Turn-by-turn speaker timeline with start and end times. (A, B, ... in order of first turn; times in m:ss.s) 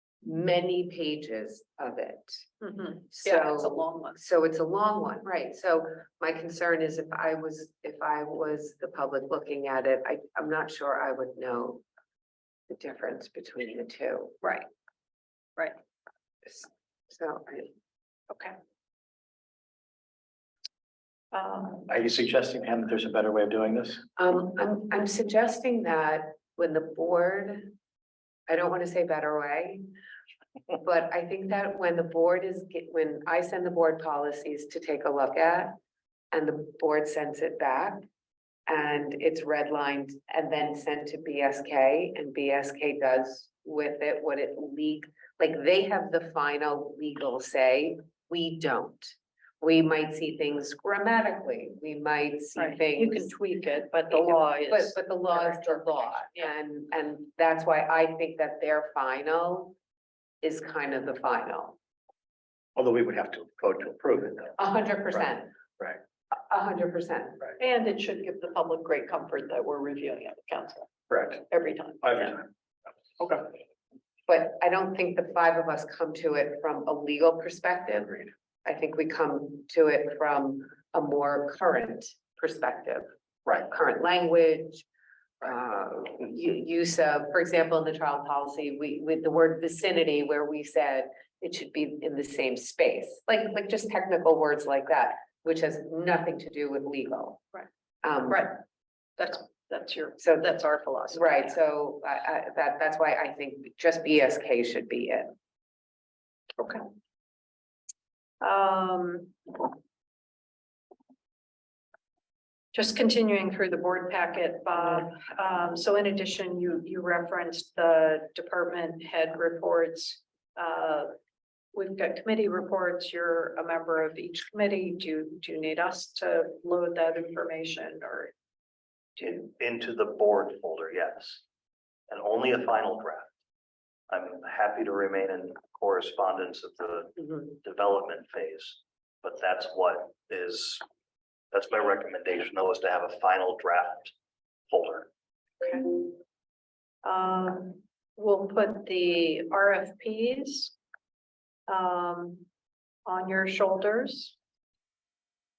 0:00.2-0:02.4 A
0:02.6-0:04.2 B
0:03.1-0:11.8 A
0:12.7-0:14.4 A
0:14.4-0:14.7 B
0:16.4-0:17.7 A
0:18.3-0:18.6 B
0:21.3-0:21.9 B
0:21.9-0:24.0 C
0:24.2-0:27.7 A
0:28.5-0:29.8 A
0:30.8-0:35.8 A
0:36.3-0:38.0 A
0:38.7-0:53.3 A
0:52.6-0:56.5 B
0:54.1-0:59.8 A
1:00.4-1:01.8 A
1:02.8-1:04.6 C
1:04.6-1:05.5 A
1:06.3-1:07.5 A
1:07.6-1:12.4 B
1:11.1-1:11.4 C
1:12.0-1:12.5 C
1:13.2-1:13.4 C
1:14.3-1:24.8 A
1:25.4-1:37.4 A
1:38.0-1:38.5 A
1:38.3-1:38.6 B
1:39.2-1:41.6 B
1:40.2-1:40.5 A
1:41.1-1:45.3 A
1:46.6-1:46.8 B
1:48.4-1:49.7 B
1:52.7-2:01.1 B
2:01.7-2:08.3 B
2:09.2-2:11.4 D
2:12.1-2:13.3 D
2:14.1-2:20.8 D
2:21.5-2:24.1 D
2:24.7-2:25.1 D
2:25.6-2:26.2 B
2:27.0-2:30.7 B
2:31.7-2:32.4 B
2:33.0-2:34.4 B